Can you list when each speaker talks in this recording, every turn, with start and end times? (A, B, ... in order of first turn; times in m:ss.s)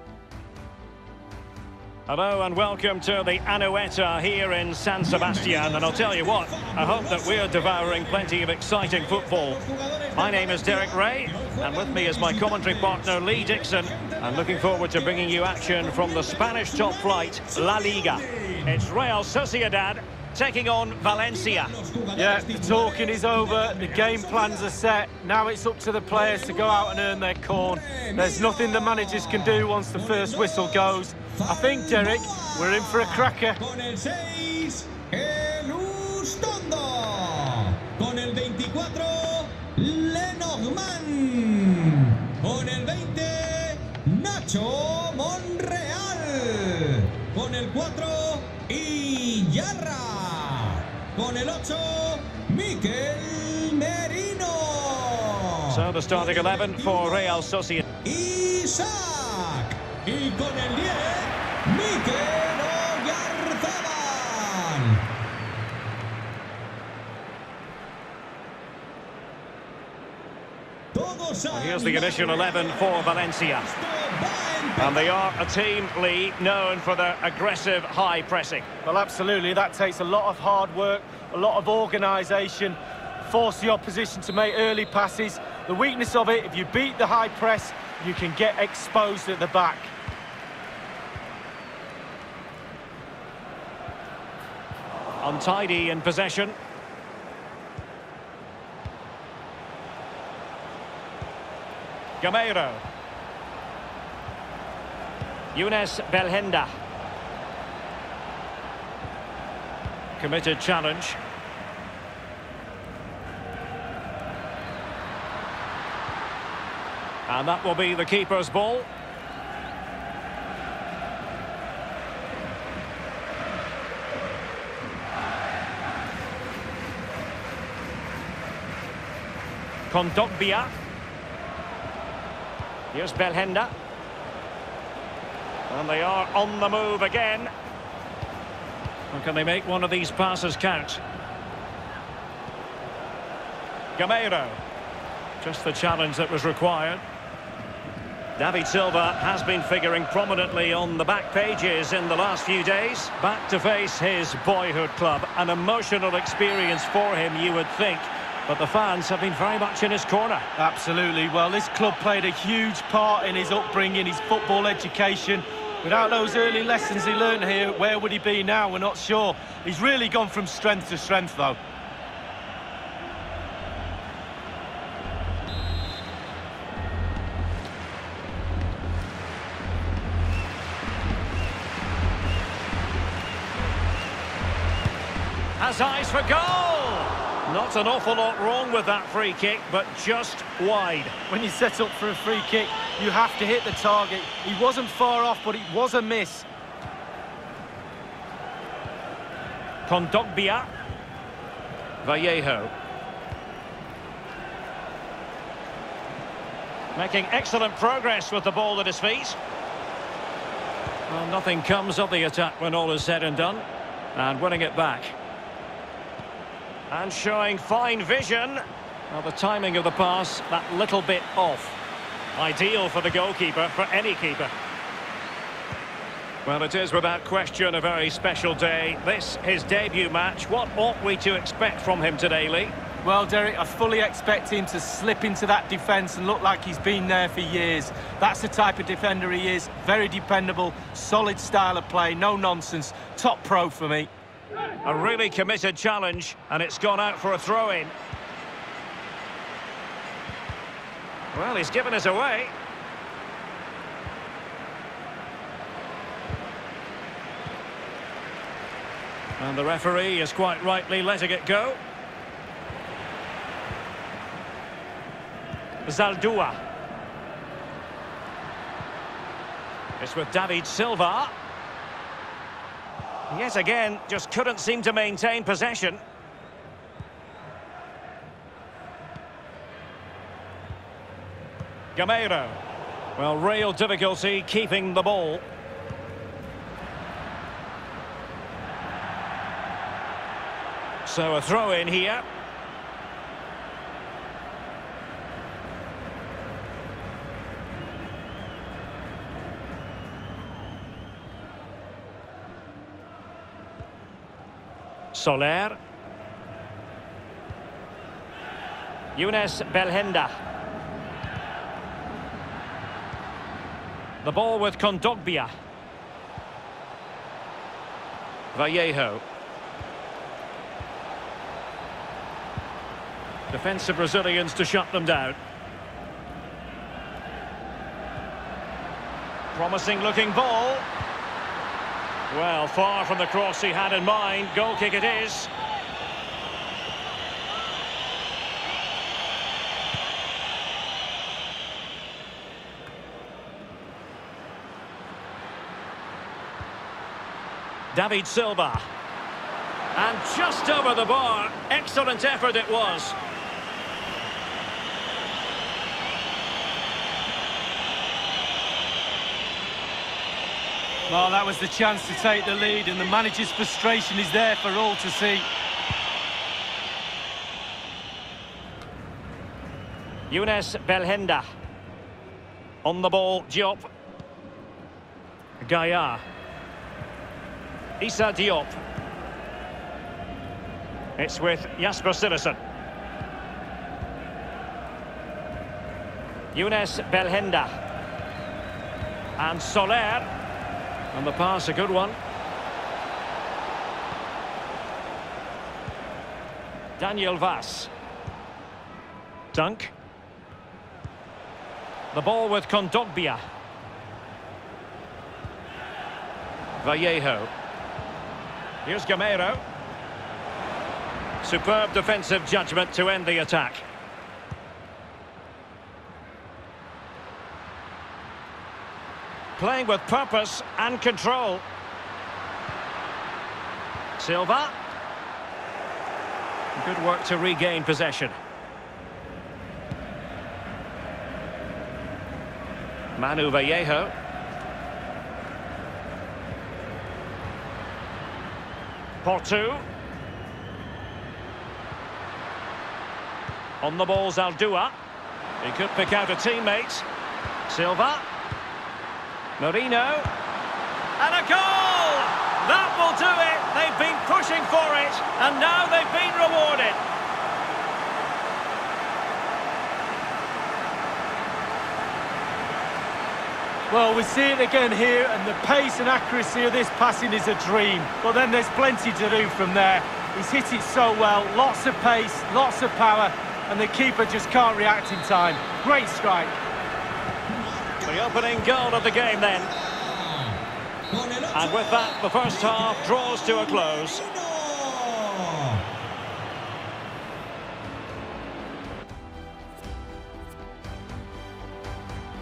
0:02.1-0:09.6 A
0:05.0-0:18.9 B
0:10.2-0:21.7 A
0:21.0-0:24.8 B
0:22.2-0:33.6 C
0:26.1-0:57.5 B
0:55.7-0:57.8 A
0:58.0-1:05.0 B
1:10.9-1:15.4 B
1:11.5-1:13.7 A
1:14.8-1:18.6 A
1:18.8-1:29.9 C
1:35.2-1:36.6 A
1:42.2-1:42.8 A
1:45.6-1:46.7 A
1:50.2-1:51.2 A
1:57.3-1:58.9 A
2:09.9-2:10.7 A
2:12.9-2:13.7 A
2:15.7-2:17.5 A
2:19.1-2:21.0 A
2:24.0-2:24.6 A
2:25.4-2:27.0 A
2:28.4-2:40.4 A
2:40.6-2:51.6 C
3:05.6-3:11.1 A
3:11.3-3:16.5 C
3:19.9-3:20.7 A
3:22.0-3:22.7 A
3:27.0-3:29.4 A
3:31.1-3:35.2 A
3:36.9-3:41.8 A
3:42.4-3:44.5 A
3:46.5-3:52.7 A
3:53.0-4:04.1 C
4:04.8-4:07.9 A
4:11.3-4:12.5 A
4:19.4-4:21.8 A
4:25.9-4:26.6 A
4:30.0-4:31.3 A
4:33.3-4:36.0 A
4:42.0-4:42.6 A
4:43.2-4:45.4 A
4:51.1-4:52.2 A
5:05.1-5:05.8 A
5:09.2-5:10.3 A
5:14.2-5:15.5 A
5:18.5-5:19.2 A
5:23.5-5:25.4 A
5:29.6-5:30.9 A
5:32.3-5:35.5 A
5:47.9-5:48.8 A
5:50.0-5:53.2 A
6:01.1-6:05.4 C
6:10.3-6:11.4 A
6:12.8-6:13.9 A
6:15.6-6:16.2 A
6:18.0-6:18.8 A
6:21.2-6:22.6 A
6:26.5-6:27.7 A
6:29.4-6:30.2 A
6:31.1-6:32.2 A
6:37.0-6:37.9 A
6:39.5-6:39.9 A
6:42.1-6:43.4 A
6:46.8-6:47.5 A
6:48.8-6:49.6 A
6:51.4-6:53.8 A
6:59.6-7:01.6 A
7:04.2-7:04.7 A
7:06.8-7:08.4 A
7:13.2-7:14.1 A
7:19.2-7:19.8 A
7:23.8-7:25.0 A
7:25.6-7:27.0 A
7:27.7-7:28.2 A
7:29.6-7:30.3 A
7:31.2-7:37.0 A
7:43.9-7:56.6 C
7:57.5-8:05.8 B
7:58.1-7:59.7 A
8:01.5-8:04.2 A